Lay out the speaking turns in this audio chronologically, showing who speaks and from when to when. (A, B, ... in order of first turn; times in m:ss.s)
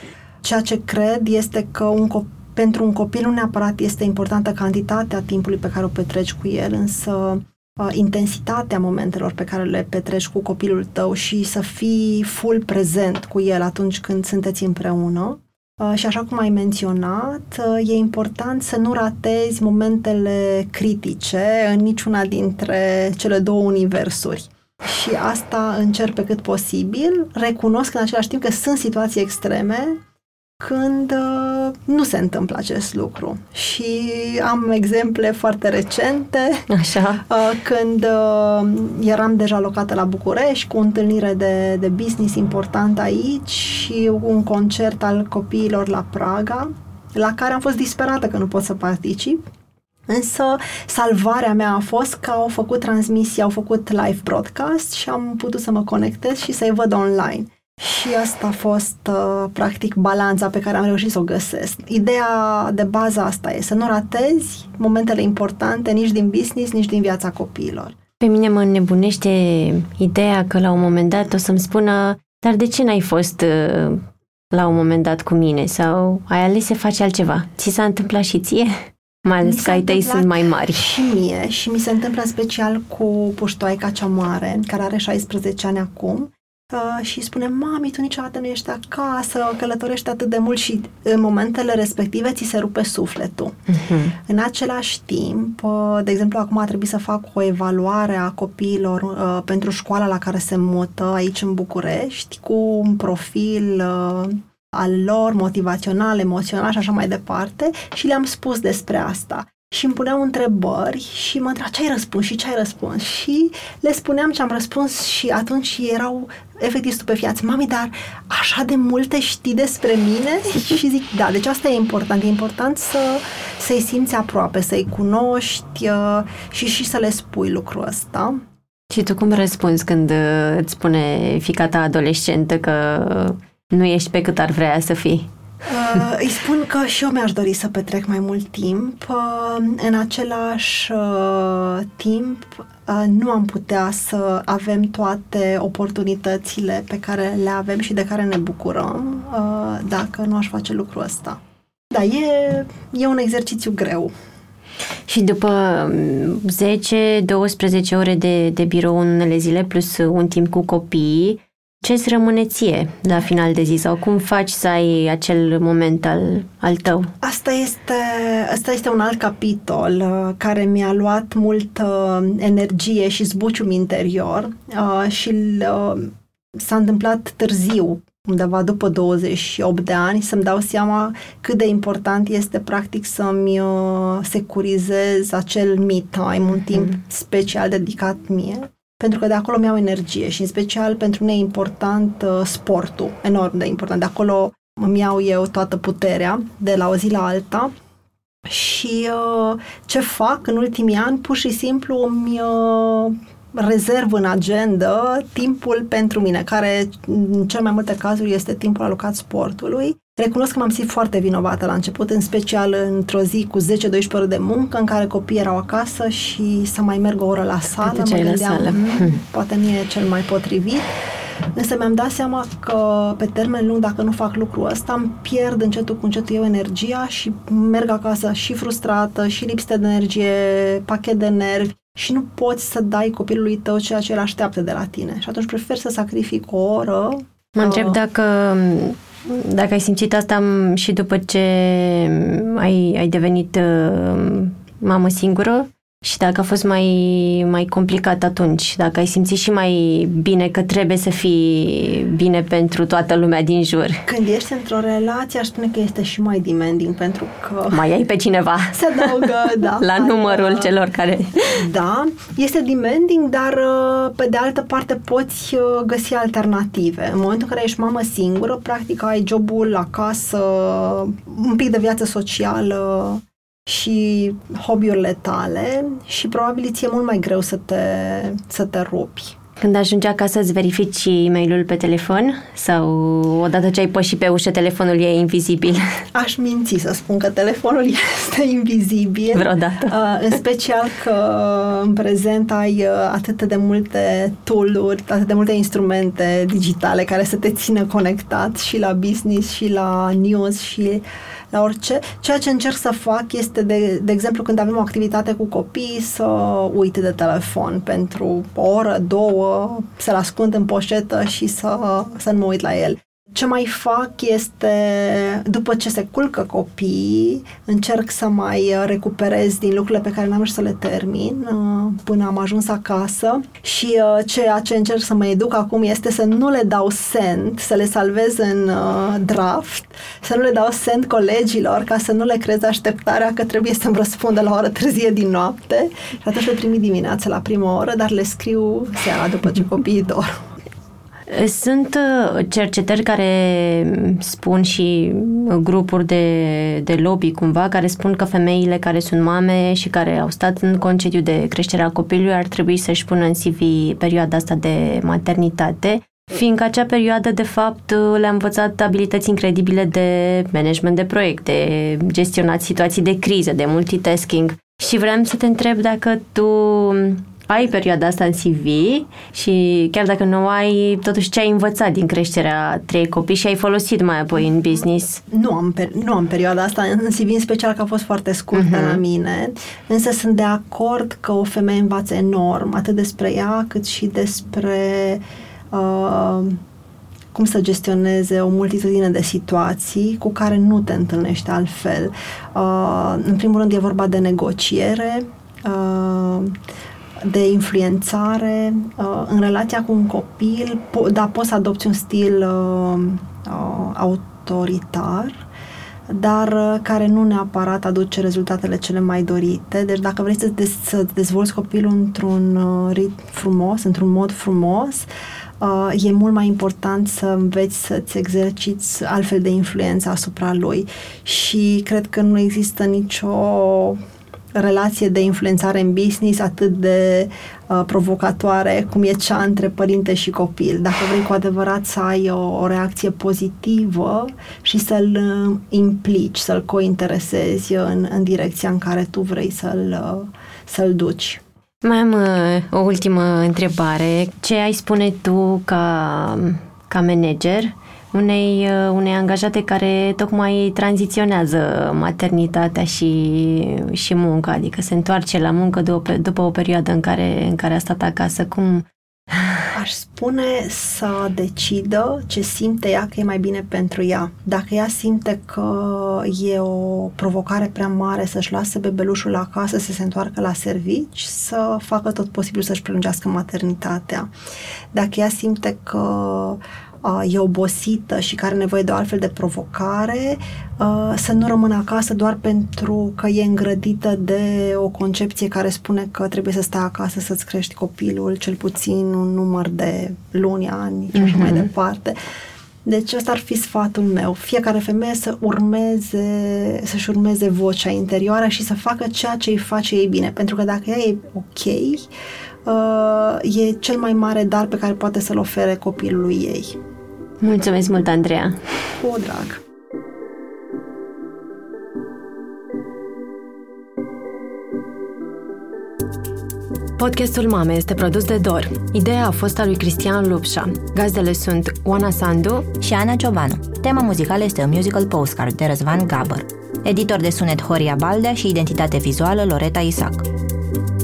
0:00.4-0:30.0 A
0:30.6-0:36.6 A
0:36.7-0:37.2 B
0:37.2-0:49.4 A
0:50.1-1:07.9 A
1:08.2-1:20.9 B
1:19.4-1:33.6 A
1:33.7-1:34.2 B
1:34.1-2:08.4 A
2:08.9-2:15.3 B
2:15.6-2:31.4 A
2:31.9-2:34.1 A
2:35.1-2:47.1 B
2:47.2-3:17.7 A
3:18.4-3:40.9 A
3:37.8-3:39.2 B
3:41.5-3:58.0 A
3:57.6-4:14.1 B
4:14.1-4:17.8 A
4:17.7-4:21.6 B
4:18.7-4:20.8 A
4:21.5-4:39.3 A
4:39.6-4:46.0 B
4:46.1-5:40.4 A
4:49.3-4:50.0 B
5:41.3-6:15.2 B
6:15.3-6:26.6 A
6:18.5-6:19.0 B
6:27.3-6:36.6 A
6:37.2-6:45.4 A
6:46.1-6:55.1 A
6:55.6-7:04.0 A
7:04.6-7:21.4 A
7:21.8-7:39.7 B
7:39.7-7:54.3 A
7:54.9-8:12.2 A
8:11.1-8:11.7 B
8:12.8-8:22.1 A
8:22.6-8:26.8 A
8:27.4-8:28.7 B
8:29.0-8:29.6 A
8:37.0-8:42.7 B
8:42.8-8:50.2 C